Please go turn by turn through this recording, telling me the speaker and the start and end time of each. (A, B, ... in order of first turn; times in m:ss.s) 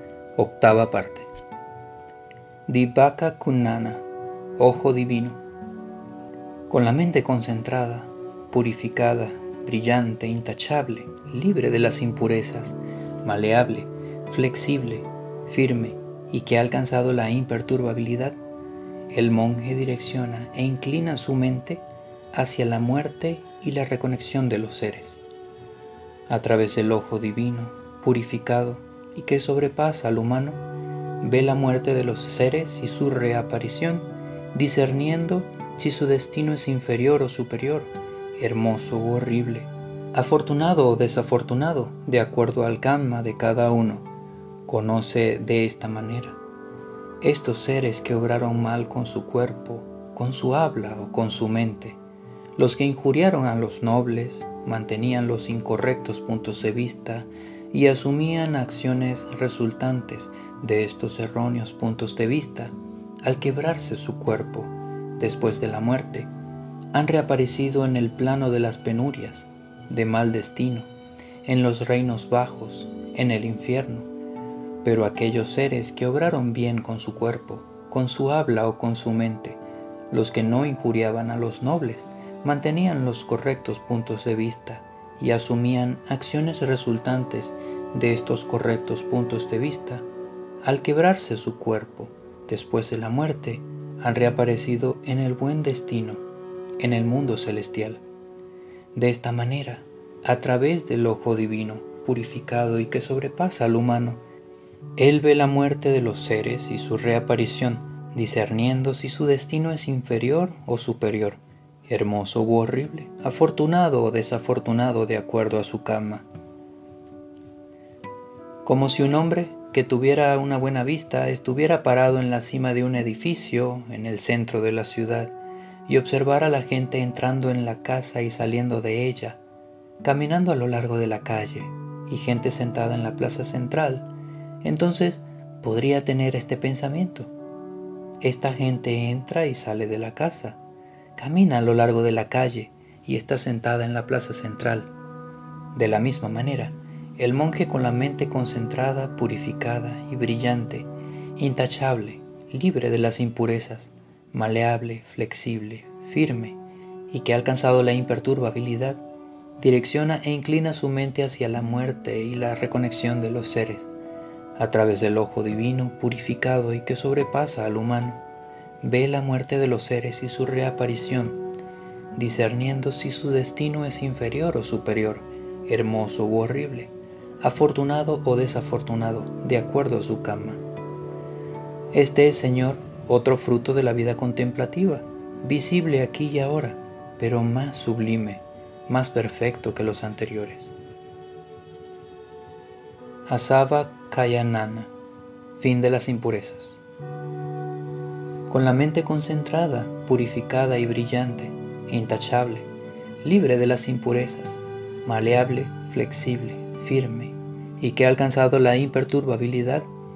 0:00.4-0:01.3 A
0:02.7-0:04.0 A
0:04.6-0:05.4 A
0:06.7-0:18.4 A
0:19.1-0:25.2 A
0:26.3-0:30.6 A
0:31.2-0:44.1 A
0:44.7-0:46.4 A
0:47.2-0:52.0 A
0:52.6-1:06.3 A
1:06.9-1:10.9 A
1:11.4-1:14.1 A
1:14.8-1:19.6 A
1:20.1-1:30.0 A
1:30.6-1:36.2 A
1:36.8-1:38.0 A
1:38.9-1:44.2 A
1:45.0-1:56.2 A
1:58.6-2:05.3 A
2:05.9-2:09.4 A
2:10.0-2:14.1 A
2:14.6-2:17.3 A
2:18.2-2:20.6 A
2:21.2-2:24.9 A
2:25.7-2:36.6 A
2:37.1-2:39.0 A
2:39.6-2:43.9 A
2:44.6-2:48.2 A
2:48.8-2:51.4 A
2:52.2-3:00.6 A
3:01.9-3:10.7 A
3:13.3-3:14.9 A
3:15.6-3:16.8 A
3:18.5-3:22.7 A
3:23.2-3:29.9 A